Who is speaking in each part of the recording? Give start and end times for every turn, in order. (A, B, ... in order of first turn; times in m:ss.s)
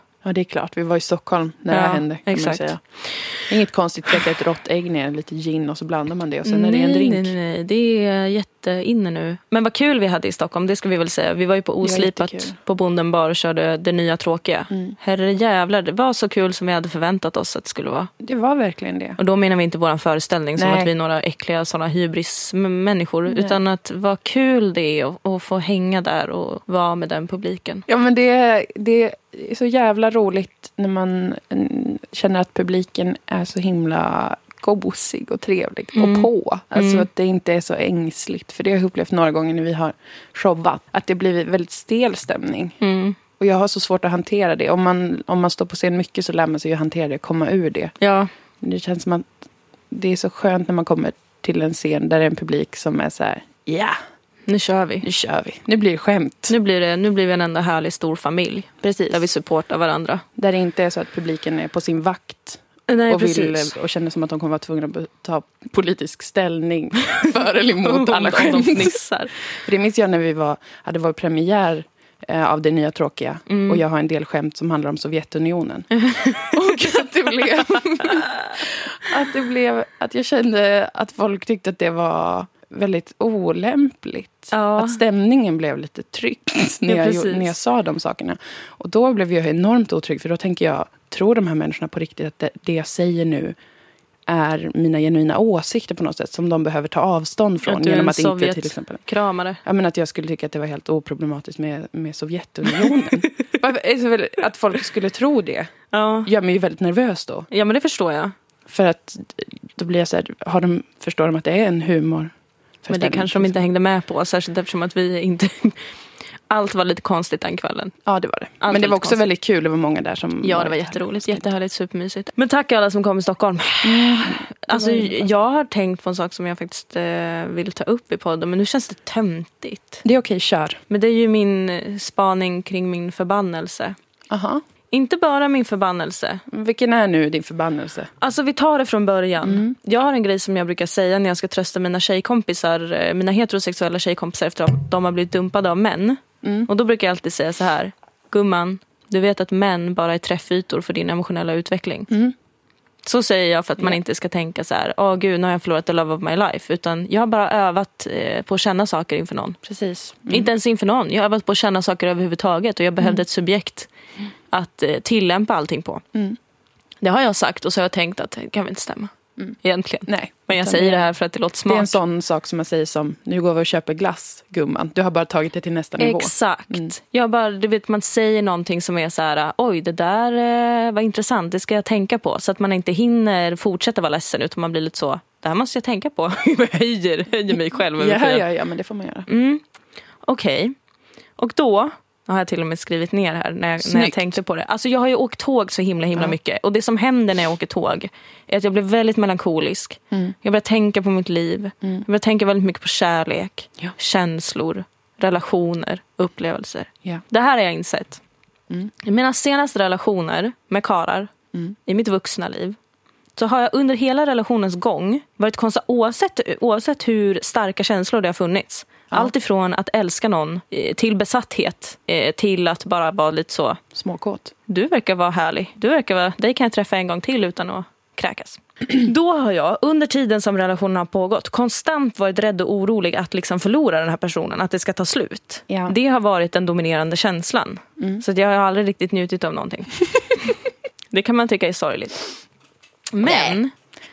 0:00.2-0:02.8 A
0:01.7-0:03.4 B
0:03.5-0:07.3 A
0:06.4-0:18.1 B
0:11.8-0:12.6 A
0:14.7-0:15.0 A
0:18.2-0:19.2 A
0:19.2-0:27.8 B
0:20.6-0:20.9 A
0:23.3-0:23.6 A
0:27.9-0:42.8 A
0:35.9-0:37.1 B
0:42.8-0:43.2 B
0:43.4-0:47.9 A
0:48.0-0:48.3 B
0:48.6-0:49.3 A
0:49.9-0:54.0 A
0:54.5-0:55.1 B
0:55.0-0:56.5 A
0:56.5-1:00.2 B
0:58.8-0:59.2 A
1:00.4-1:09.0 A
1:02.9-1:03.7 B
1:07.8-1:09.3 B
1:09.6-1:33.6 A
1:13.5-1:13.8 B
1:15.9-1:17.0 B
1:18.0-1:18.6 B
1:24.5-1:25.0 B
1:26.8-1:27.5 B
1:34.3-1:39.0 A
1:37.6-1:39.6 B
1:39.6-1:45.7 A
1:45.9-1:46.3 B
1:46.2-1:47.5 A
1:47.5-1:48.3 B
1:48.7-1:53.5 A
1:52.9-1:55.8 B
1:56.5-1:57.9 B
1:58.0-2:01.4 A
1:58.6-1:59.2 B
2:00.4-2:10.0 B
2:03.8-2:05.3 A
2:10.0-2:10.8 A
2:10.9-2:14.0 B
2:14.3-2:14.6 A
2:14.9-2:16.4 B
2:16.5-2:18.1 A
2:18.2-2:32.1 B
2:19.4-2:19.7 A
2:26.4-2:26.7 A
2:32.1-2:32.3 A
2:33.0-2:39.6 B
2:39.6-2:40.5 A
2:40.3-2:43.9 B
2:44.5-2:46.0 B
2:47.0-2:52.0 B
2:50.1-2:51.1 A
2:51.6-2:56.9 A
2:56.0-3:08.4 B
3:08.0-3:09.3 A
3:09.3-3:09.6 B
3:10.2-3:10.7 B
3:11.4-3:28.2 B
3:13.8-3:14.3 A
3:29.0-3:31.3 B
3:31.8-3:32.8 B
3:33.4-3:43.8 B
3:43.9-3:44.5 A
3:44.7-4:00.6 B
3:55.7-3:56.0 A
4:01.1-4:02.4 B
4:03.1-4:03.7 B
4:03.2-4:03.6 A